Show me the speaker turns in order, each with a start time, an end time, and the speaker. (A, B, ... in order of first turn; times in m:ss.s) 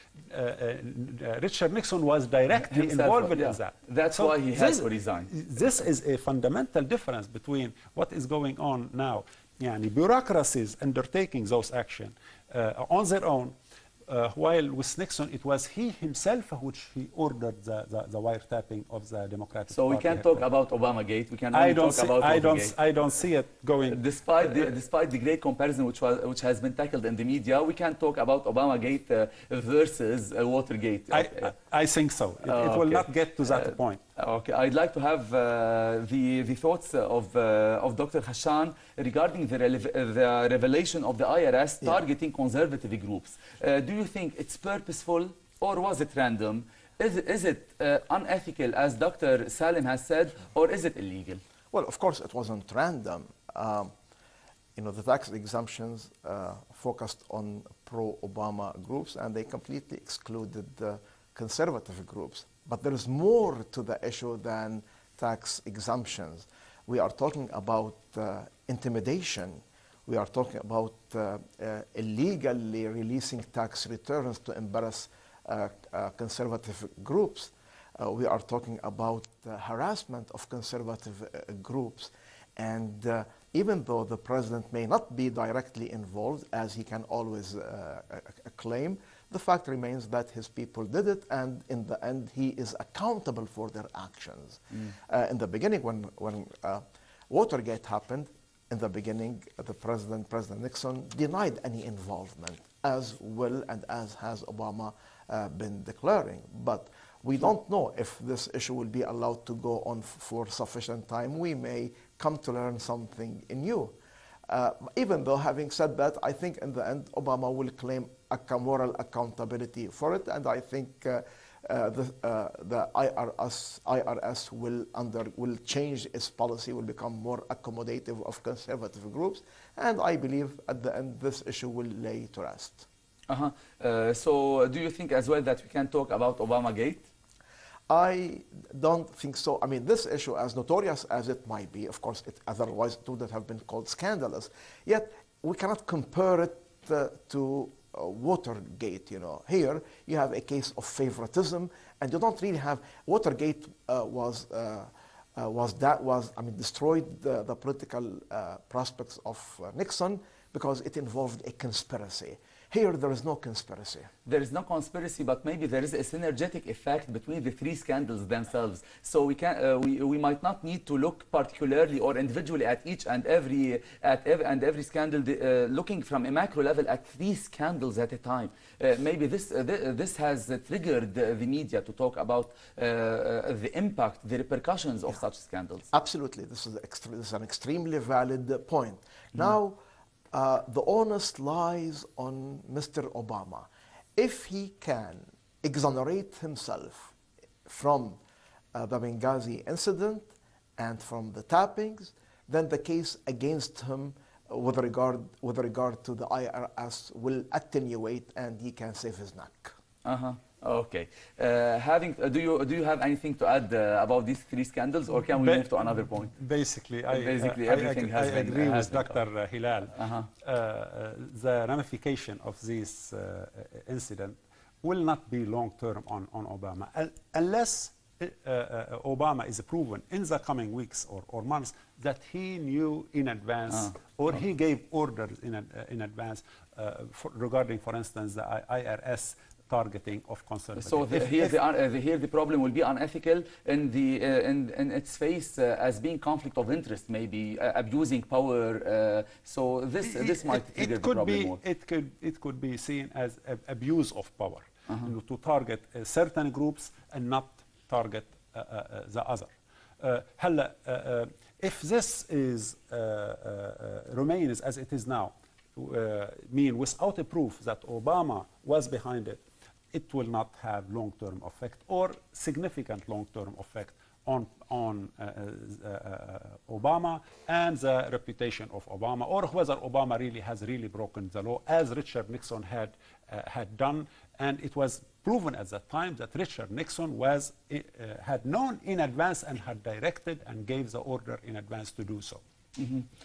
0:00.2-0:13.6 A
0:02.6-0:05.3 B
0:14.1-0:20.4 A
0:19.7-0:22.7 B
0:21.5-0:24.7 A
0:23.9-0:31.5 B
0:31.1-0:34.0 A
0:32.4-0:51.4 B
0:51.7-0:53.9 C
0:54.8-1:54.0 C
1:54.5-2:12.8 C
2:13.3-2:17.1 B
2:17.9-2:44.1 C
2:44.2-3:05.8 B
3:05.9-3:09.8 C
3:10.3-3:17.1 C
3:17.6-3:18.2 C
3:18.7-3:29.7 C
3:30.0-3:36.3 B
3:35.3-4:01.5 A
3:37.1-3:39.2 B
3:39.9-3:40.3 B
4:00.8-4:11.6 B
4:10.0-4:29.4 A
4:29.9-4:52.4 A
4:52.8-4:53.1 B